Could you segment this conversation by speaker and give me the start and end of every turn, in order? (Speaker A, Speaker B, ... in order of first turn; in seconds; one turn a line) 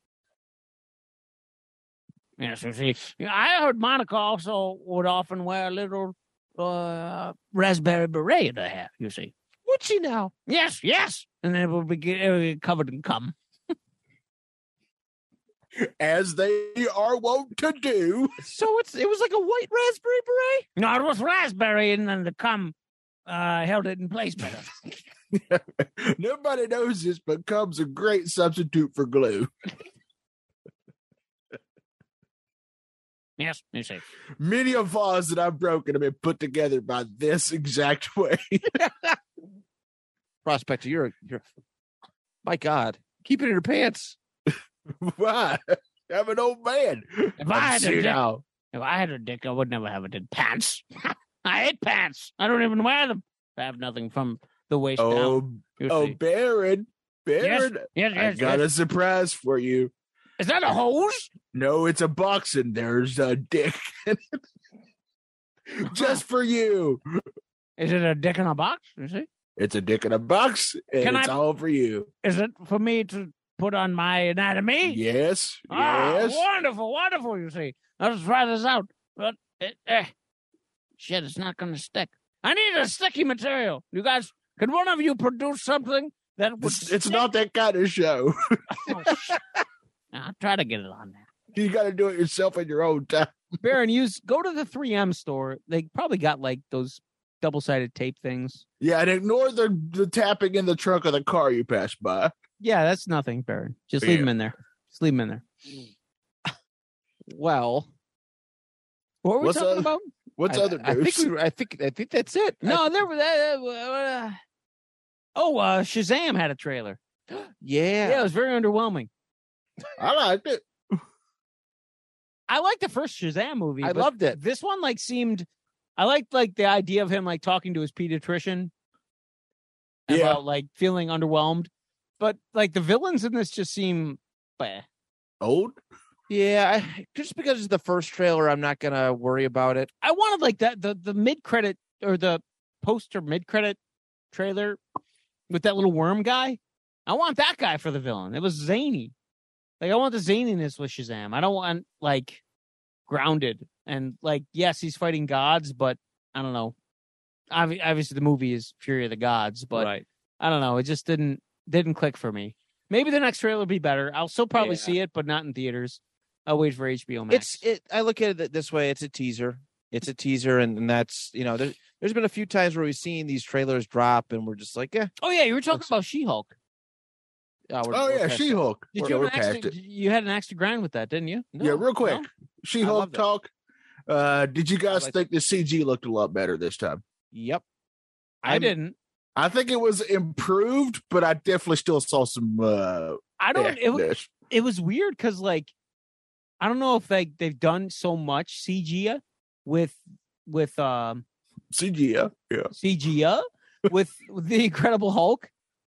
Speaker A: 2.4-9.3
Speaker B: 9.7-10.3
Speaker A: 10.5-13.3
Speaker C: 15.8-18.4
Speaker B: 18.4-20.7
Speaker A: 20.8-22.8
Speaker A: 23.3-24.8
Speaker C: 25.3-29.5
Speaker A: 33.4-34.0
Speaker C: 34.4-38.8
Speaker B: 40.5-41.4
Speaker B: 42.4-44.2
Speaker C: 44.9-48.4
Speaker A: 47.4-48.2
Speaker A: 48.7-56.2
Speaker C: 55.0-59.9
Speaker A: 57.4-58.6
Speaker A: 60.4-61.3
Speaker C: 61.5-64.4
Speaker C: 65.7-67.0
Speaker A: 67.8-69.3
Speaker C: 69.6-72.1
Speaker A: 71.0-71.4
Speaker A: 72.2-75.0
Speaker C: 74.8-76.5
Speaker A: 75.7-80.1
Speaker A: 81.0-87.3
Speaker C: 86.6-89.2
Speaker A: 88.7-89.4
Speaker A: 90.1-91.3
Speaker C: 91.5-93.4
Speaker A: 93.6-98.6
Speaker C: 98.8-102.3
Speaker A: 102.6-105.5
Speaker C: 104.0-104.3
Speaker B: 107.3-107.9
Speaker A: 109.2-110.1
Speaker C: 109.4-111.3
Speaker B: 110.5-112.8
Speaker A: 112.6-114.4
Speaker A: 115.4-117.0
Speaker B: 117.4-118.3
Speaker A: 118.0-119.1
Speaker C: 120.0-120.6
Speaker A: 122.5-128.7
Speaker B: 123.8-124.4
Speaker A: 130.1-134.9
Speaker C: 130.1-130.4
Speaker C: 135.4-135.8
Speaker B: 136.3-139.9
Speaker A: 140.0-143.8
Speaker A: 144.3-144.8
Speaker A: 145.5-149.1
Speaker A: 149.8-152.4
Speaker A: 153.1-156.8
Speaker A: 157.5-167.6
Speaker B: 159.8-160.0
Speaker B: 164.6-164.9
Speaker B: 167.3-175.1
Speaker A: 175.2-176.5
Speaker B: 177.7-179.1
Speaker C: 177.9-179.7
Speaker A: 178.9-182.2
Speaker B: 181.6-181.9
Speaker C: 181.6-183.5
Speaker B: 182.8-183.2
Speaker C: 184.1-187.0
Speaker B: 187.3-187.6
Speaker A: 188.4-188.9
Speaker B: 188.4-188.7
Speaker C: 189.4-194.3
Speaker A: 193.4-195.7
Speaker A: 196.6-201.2
Speaker C: 201.7-202.7
Speaker A: 202.7-205.5